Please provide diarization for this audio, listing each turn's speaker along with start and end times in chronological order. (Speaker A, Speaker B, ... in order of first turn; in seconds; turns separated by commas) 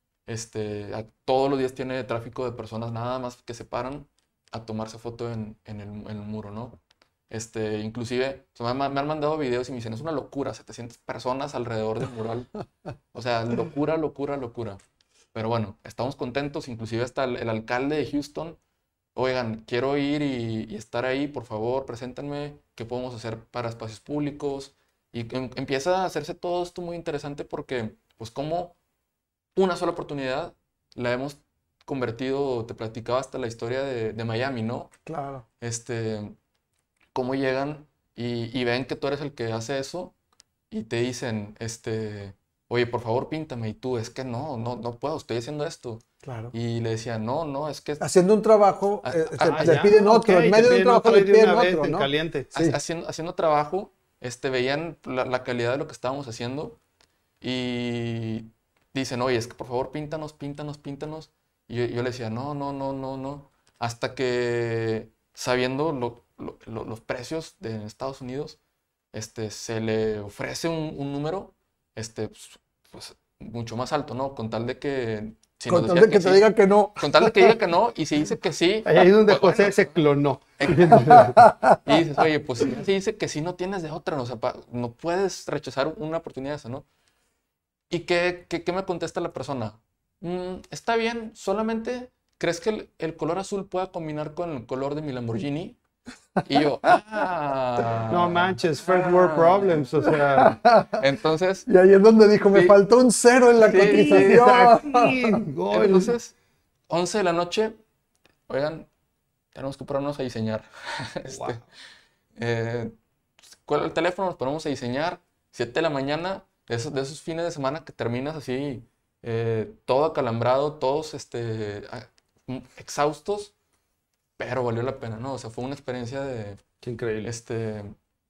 Speaker A: 0.3-6.8, Speaker A: 7.3-12.5, Speaker A: 13.1-14.8, Speaker A: 15.3-18.6, Speaker A: 19.1-28.8, Speaker A: 29.6-34.9, Speaker B: 35.1-35.5, Speaker A: 35.6-36.4, Speaker A: 37.1-40.1, Speaker A: 40.7-48.0, Speaker B: 46.2-46.5, Speaker B: 48.0-52.8, Speaker A: 49.0-49.9, Speaker C: 49.5-52.5, Speaker A: 52.5-56.8, Speaker A: 57.4-68.6, Speaker A: 69.1-80.0, Speaker B: 75.7-77.6, Speaker C: 78.8-81.4, Speaker A: 80.6-86.8, Speaker B: 81.0-81.8, Speaker A: 87.9-95.8, Speaker A: 96.4-99.9, Speaker C: 98.1-100.6, Speaker B: 100.4-101.0, Speaker A: 100.9-101.7, Speaker B: 101.7-105.4, Speaker A: 102.5-102.8, Speaker A: 103.6-104.4, Speaker C: 103.8-106.2, Speaker A: 105.7-106.3, Speaker A: 106.9-107.8, Speaker A: 108.5-108.9, Speaker A: 109.5-111.6, Speaker C: 111.2-111.6, Speaker A: 112.4-112.9, Speaker A: 113.7-123.5, Speaker A: 124.4-126.6, Speaker C: 126.8-127.3, Speaker A: 127.2-128.0